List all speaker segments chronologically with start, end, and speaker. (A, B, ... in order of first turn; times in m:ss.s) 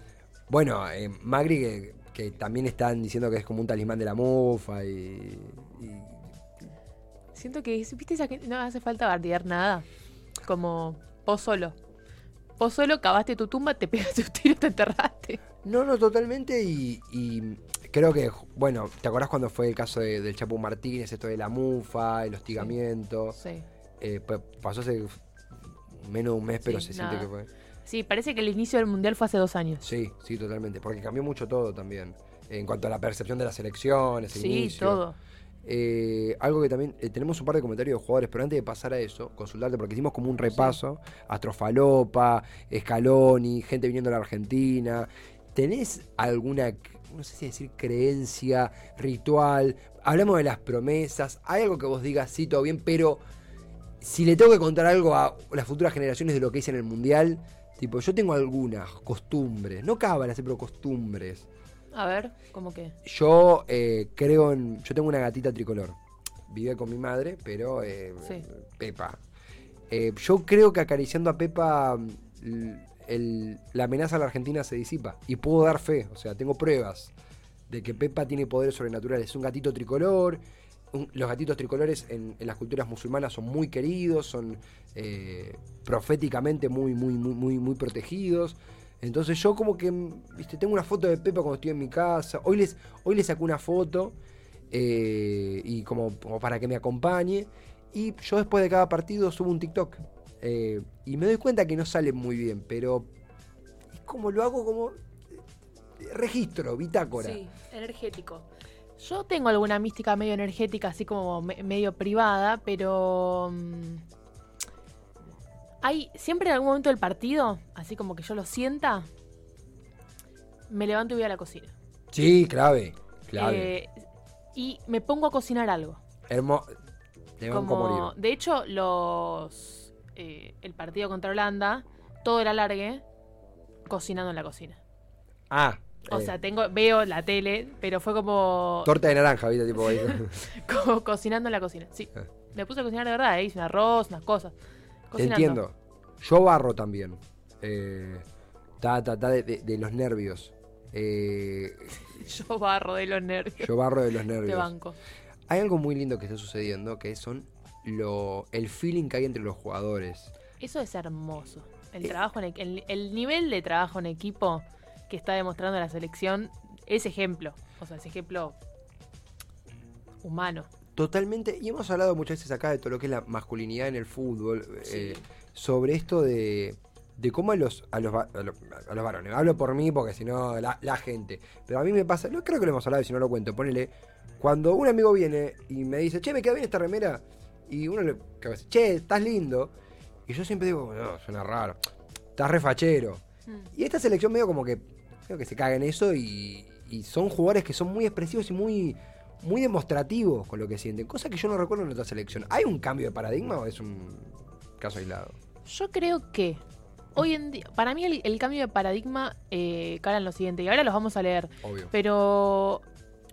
0:00.5-0:06.2 A
0:07.3-0:09.8 B
0:10.4-0:11.7 B
0:12.6-0:15.4 B
0:15.6-0:23.4 A
0:23.3-0:23.6 B
0:24.0-0:25.2 A
0:25.9-0:27.5 A
0:26.6-0:27.3 B
0:27.8-0:29.9 B
0:29.8-0:35.0 A
0:34.3-0:35.2 B
0:35.6-0:53.2 A
0:40.5-0:40.8 B
0:54.0-1:01.5 A
1:01.9-1:02.9 B
1:03.0-1:06.0 A
1:06.5-1:09.2 A
1:09.9-1:17.1 A
1:17.7-1:20.4 A
1:20.9-1:34.2 A
1:34.7-1:43.1 A
1:43.9-1:44.9 A
1:46.0-1:47.4 A
1:47.1-1:48.5 B
1:49.0-1:54.0 B
1:55.8-1:59.1 B
2:00.7-2:01.7 B
2:02.1-2:03.7 A
2:03.3-2:03.9 B
2:04.5-2:06.0 B
2:06.3-2:06.7 A
2:07.4-2:08.1 A
2:07.5-2:13.0 B
2:13.9-2:14.8 B
2:15.5-2:16.4 A
2:16.1-2:18.9 B
2:18.8-2:20.4 A
2:19.8-2:24.5 B
2:25.1-2:25.6 B
2:25.2-2:28.2 A
2:28.8-2:31.9 A
2:32.0-2:33.7 B
2:33.6-2:34.7 A
2:34.4-2:35.0 B
2:35.5-2:40.3 A
2:40.6-2:48.6 B
2:50.2-2:50.7 B
2:51.0-3:09.7 A
2:54.8-2:55.2 B
3:10.3-3:11.8 A
3:12.4-3:25.4 A
3:25.6-3:26.6 B
3:27.1-3:32.8 B
3:31.6-3:31.9 A